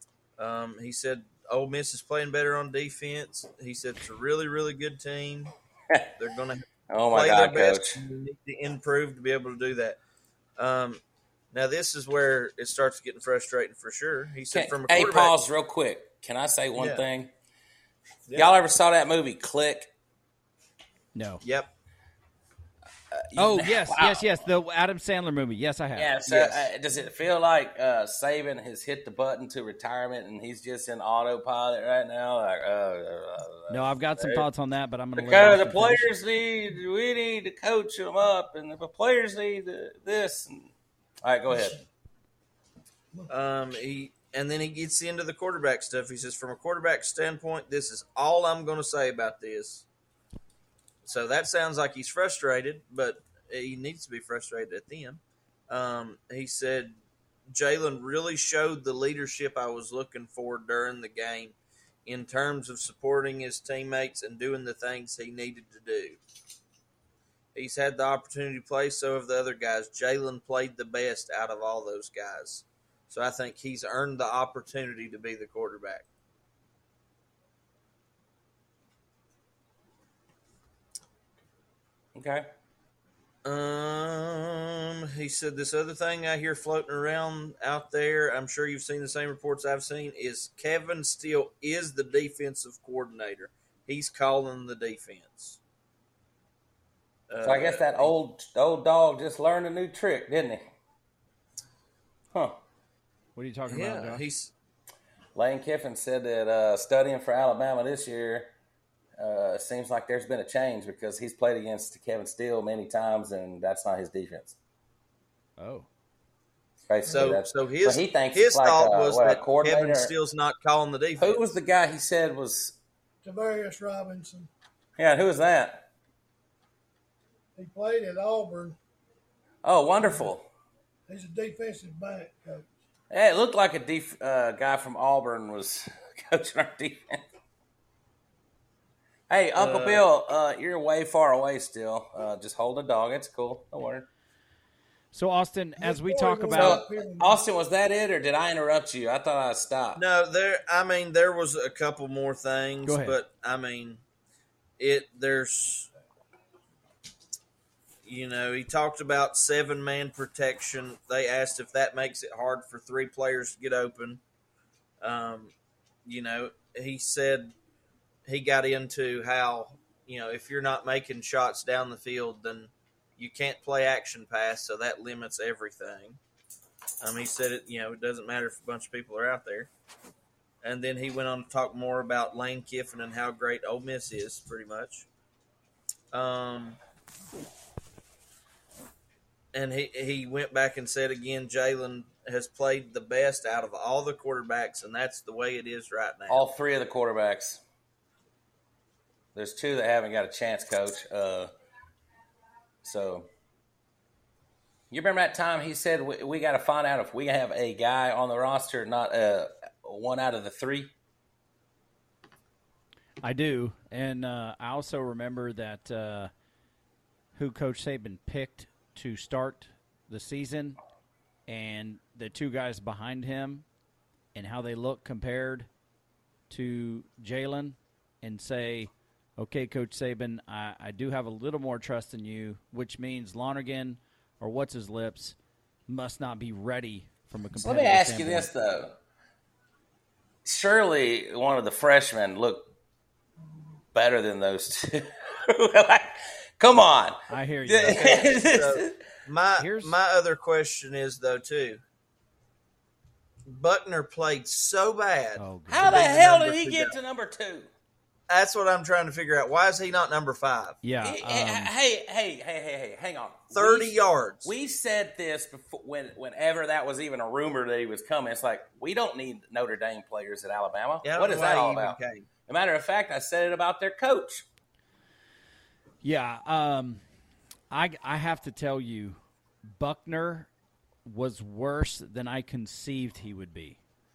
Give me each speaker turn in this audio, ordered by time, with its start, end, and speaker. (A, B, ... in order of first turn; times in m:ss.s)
0:00.4-0:05.5 A
0:06.2-0:10.0 A
0:06.9-0:08.0 B
0:10.6-0:11.0 A
0:11.5-0:15.3 A
0:14.5-0:17.3 B
0:16.8-0:17.0 A
0:18.3-0:18.6 A
0:18.4-0:19.9 B
0:21.2-0:21.4 C
0:21.4-0:21.7 A
0:23.1-0:24.3 B
0:23.4-0:26.1 C
0:26.0-0:34.4 B
0:26.3-0:26.7 A
0:33.7-0:36.1 C
0:35.2-0:40.7 B
0:41.2-0:41.8 B
0:43.3-0:49.8 A
0:51.0-0:57.0 A
0:57.5-1:06.2 A
1:07.6-1:16.1 A
1:22.2-1:22.5 B
1:23.4-1:35.6 A
1:37.3-1:38.1 A
1:37.4-1:40.6 B
1:43.4-1:44.3 C
1:43.7-1:44.5 A
1:45.4-1:48.5 B
1:49.2-1:54.6 B
1:55.6-1:55.9 C
1:56.9-2:00.1 B
1:57.1-1:57.4 D
1:57.1-2:01.5 A
2:01.2-2:02.8 B
2:03.2-2:04.5 D
2:05.0-2:05.8 B
2:07.6-2:08.8 D
2:09.6-2:10.5 B
2:11.1-2:12.7 D
2:13.1-2:17.2 B
2:19.3-2:24.1 B
2:19.6-2:20.0 A
2:25.1-2:26.8 C
2:25.8-2:27.4 D
2:26.5-2:30.0 B
2:30.0-2:34.0 A
2:32.8-2:33.2 C
2:34.8-2:35.9 A
2:38.0-2:44.2 A
2:45.0-2:45.5 A
2:46.0-2:47.5 A
2:48.3-2:56.2 A
2:57.0-2:59.7 A
3:00.6-3:05.1 A
3:06.1-3:06.8 A
3:09.5-3:16.4 A
3:16.3-3:17.6 B
3:19.4-3:21.5 B
3:22.8-3:23.3 B
3:24.9-3:30.9 B
3:33.2-3:36.3 C
3:37.4-3:40.8 C
3:41.5-3:43.6 C
3:44.4-3:45.7 C
3:46.5-3:55.4 C
3:55.9-3:58.5 C
3:57.6-3:58.9 B
4:00.4-4:02.7 B
4:03.9-4:09.0 B
4:07.3-4:08.2 C
4:07.9-4:11.8 A
4:09.6-4:10.0 C
4:13.5-4:16.9 A
4:15.4-4:16.0 C
4:15.7-4:17.7 B
4:18.3-4:20.8 A
4:20.8-4:21.7 C
4:21.0-4:34.5 B
4:23.5-4:24.5 A
4:31.0-4:32.2 A
4:36.0-4:37.0 C
4:37.7-4:39.2 C
4:39.7-4:40.5 C
4:41.0-4:43.8 C